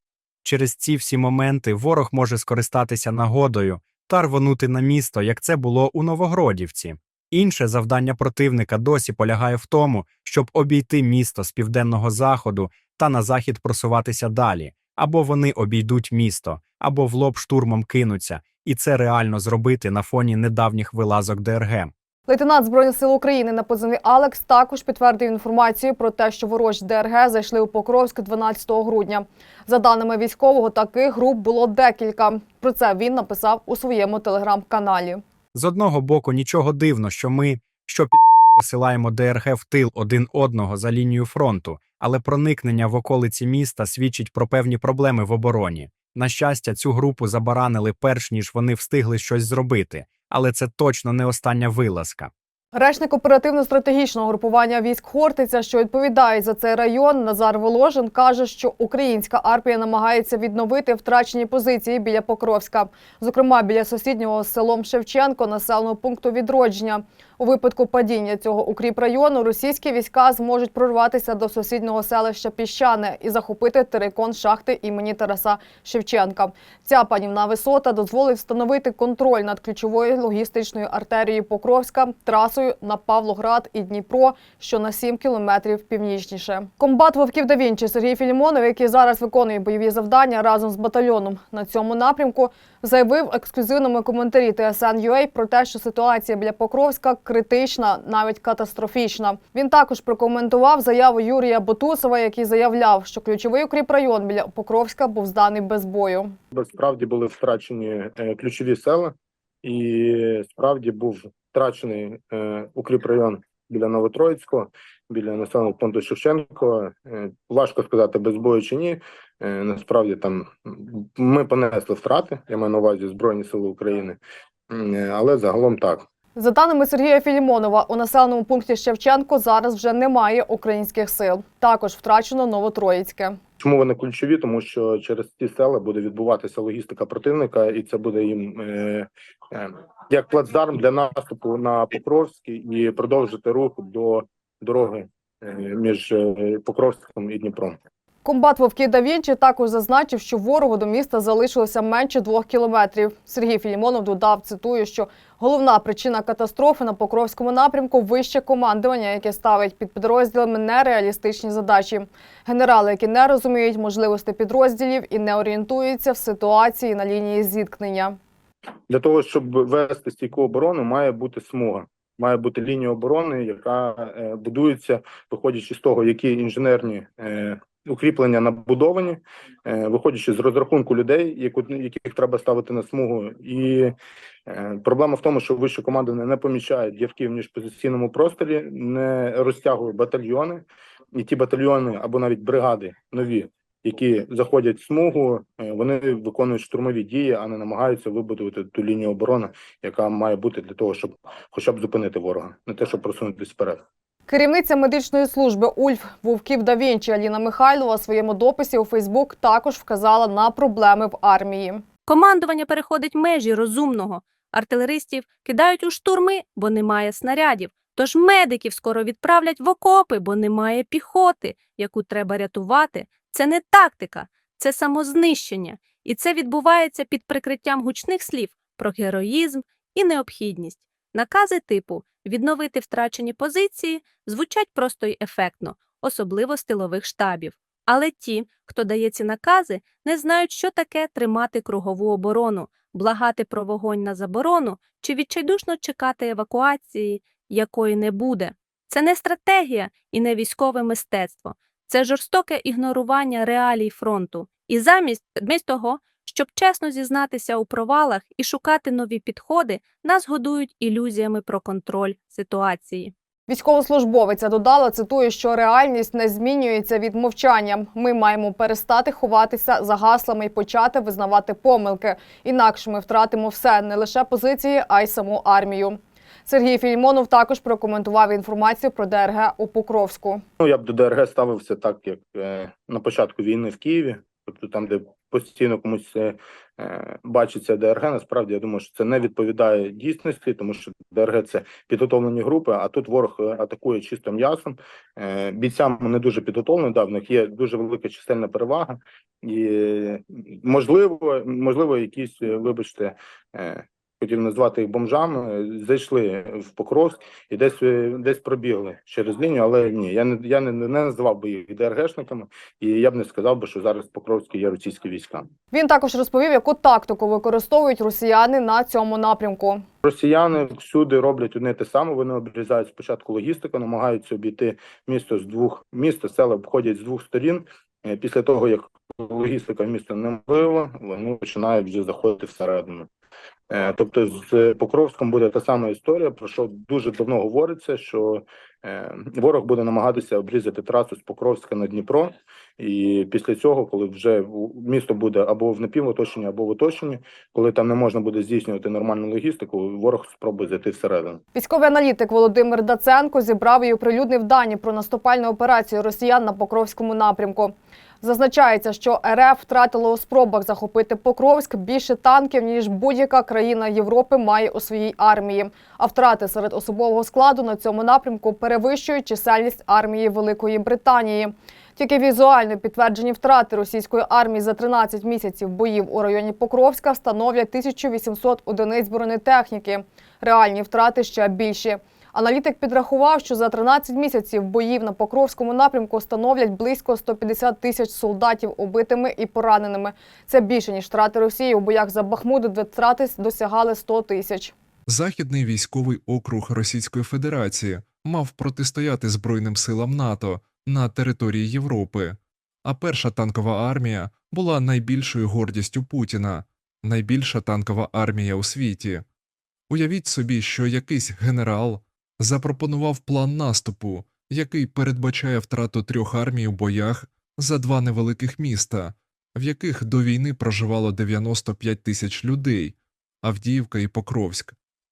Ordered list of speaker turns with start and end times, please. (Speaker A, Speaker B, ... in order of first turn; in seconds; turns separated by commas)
Speaker A: 0.4-21.9, Speaker B: 22.3-35.2, Speaker A: 35.5-52.3, Speaker B: 52.7-106.3, Speaker C: 106.5-124.2, Speaker C: 124.7-126.0, Speaker B: 126.4-133.4, Speaker C: 133.6-147.8, Speaker B: 148.2-168.2, Speaker C: 168.9-183.9, Speaker C: 184.5-203.8, Speaker B: 204.3-211.8, Speaker D: 212.1-263.1, Speaker B: 263.5-280.4, Speaker C: 280.6-315.4, Speaker B: 315.7-319.8, Speaker C: 320.0-333.1, Speaker C: 333.7-351.4, Speaker B: 351.6-394.7, Speaker E: 395.1-409.3, Speaker E: 409.9-424.8